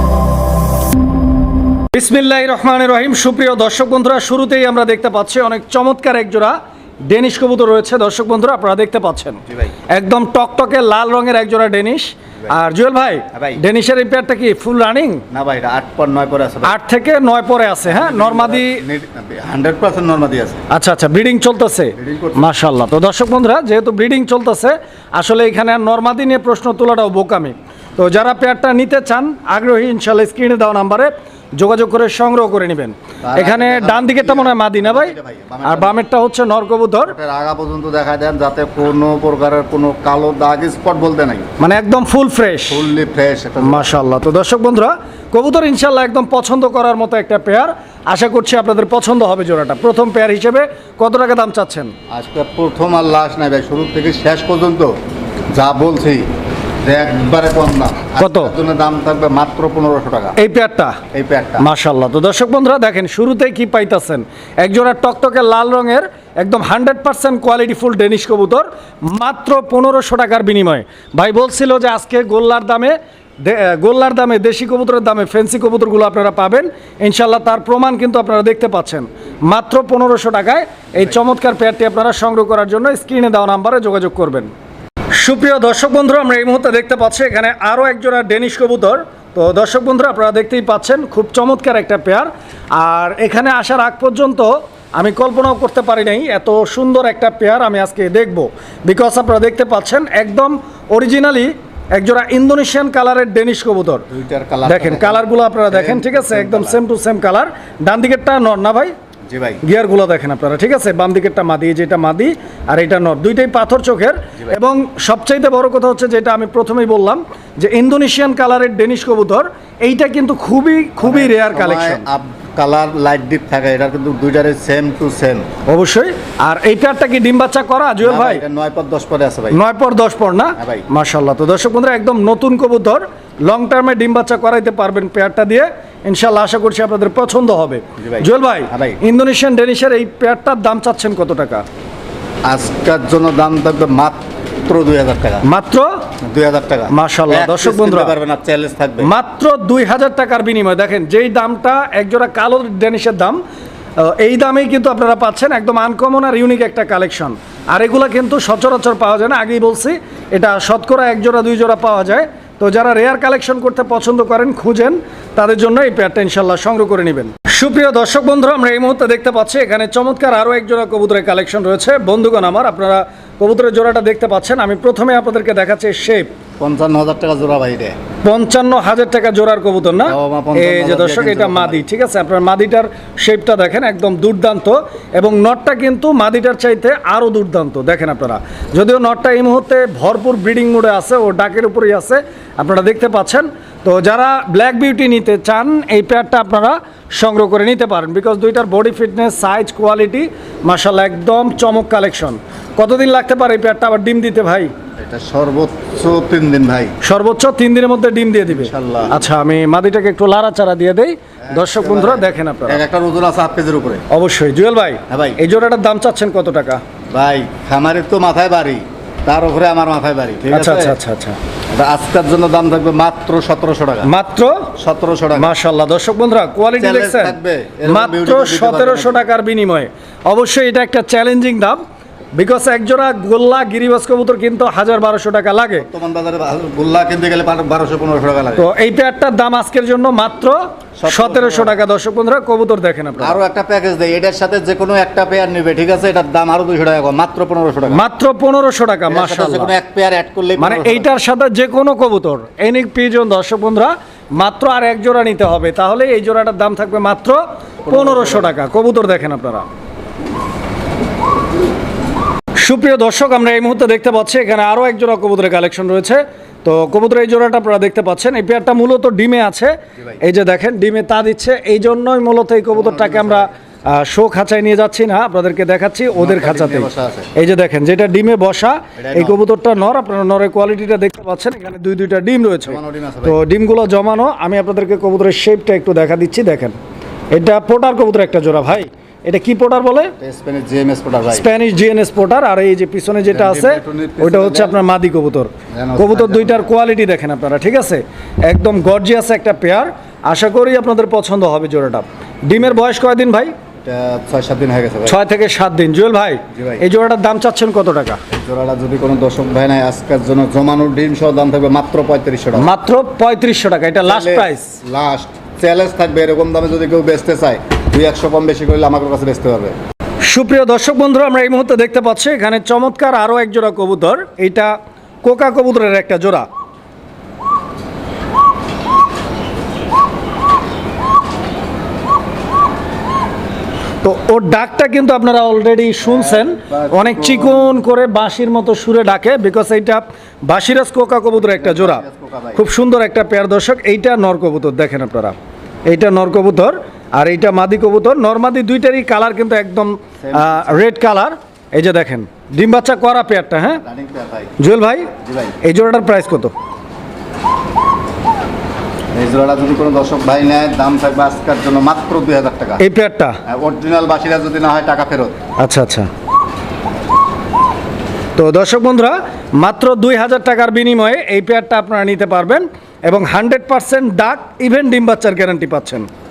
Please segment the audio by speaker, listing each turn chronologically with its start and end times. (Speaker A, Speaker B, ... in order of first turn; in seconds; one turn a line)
Speaker A: 1.9-15.2
Speaker B: 13.3-13.6
Speaker B: 15.3-16.8
Speaker A: 16.6-18.8
Speaker B: 17.8-20.6
Speaker A: 20.7-37.1
Speaker B: 21.9-22.4
Speaker B: 33.2-36.0
Speaker B: 37.0-41.5
Speaker A: 41.6-42.9
Speaker B: 42.7-43.9
Speaker A: 43.6-51.9
Speaker B: 52.1-55.0
Speaker B: 55.5-56.3
Speaker B: 56.8-60.4
Speaker A: 58.2-58.5
Speaker A: 60.4-61.0
Speaker B: 61.1-61.7
Speaker A: 61.6-84.5
Speaker A: 85.2-104.0
Speaker B: 104.1-106.8
Speaker A: 104.6-108.9
Speaker B: 109.3-109.6
Speaker A: 109.6-122.0
Speaker B: 121.0-125.5
Speaker A: 125.7-128.4
Speaker B: 128.0-129.6
Speaker A: 129.5-141.6
Speaker B: 130.6-130.8
Speaker B: 138.0-139.0
Speaker B: 142.4-145.4
Speaker A: 145.4-146.0
Speaker B: 146.2-149.1
Speaker A: 146.9-148.1
Speaker A: 149.0-153.4
Speaker A: 154.0-176.3
Speaker B: 176.6-178.0
Speaker A: 178.2-204.7
Speaker B: 180.0-181.9
Speaker B: 205.0-206.9
Speaker A: 207.0-212.8
Speaker B: 208.5-209.2
Speaker B: 211.4-214.0
Speaker A: 214.1-216.8
Speaker B: 215.1-215.5
Speaker B: 217.1-221.0
Speaker A: 220.5-221.4
Speaker B: 221.7-224.1
Speaker A: 224.0-224.7
Speaker B: 224.8-225.5
Speaker A: 225.3-231.8
Speaker B: 226.8-229.3
Speaker A: 232.3-235.9
Speaker B: 235.8-238.7
Speaker A: 238.6-243.4
Speaker B: 241.0-241.8
Speaker B: 243.2-248.0
Speaker A: 247.9-249.7
Speaker B: 249.1-251.1
Speaker A: 250.6-259.6
Speaker B: 257.8-258.5
Speaker A: 262.6-286.8
Speaker B: 272.7-273.5
Speaker B: 276.1-277.3
Speaker B: 279.0-279.4
Speaker B: 282.6-283.4
Speaker A: 287.3-290.1
Speaker B: 290.2-291.5
Speaker A: 291.3-303.5
Speaker B: 293.3-294.8
Speaker B: 295.7-296.7
Speaker B: 303.8-305.2
Speaker A: 305.1-308.2
Speaker B: 306.5-306.8
Speaker B: 308.3-312.7
Speaker A: 312.6-314.8
Speaker B: 314.0-319.8
Speaker A: 320.2-326.4
Speaker A: 334.0-353.8
Speaker B: 336.0-337.8
Speaker B: 341.4-342.6
Speaker B: 350.2-350.9
Speaker B: 353.8-354.6
Speaker A: 354.6-356.5
Speaker B: 355.1-355.6
Speaker B: 359.1-362.8
Speaker A: 362.8-363.4
Speaker B: 363.4-365.4
Speaker A: 365.6-366.1
Speaker A: 368.4-376.1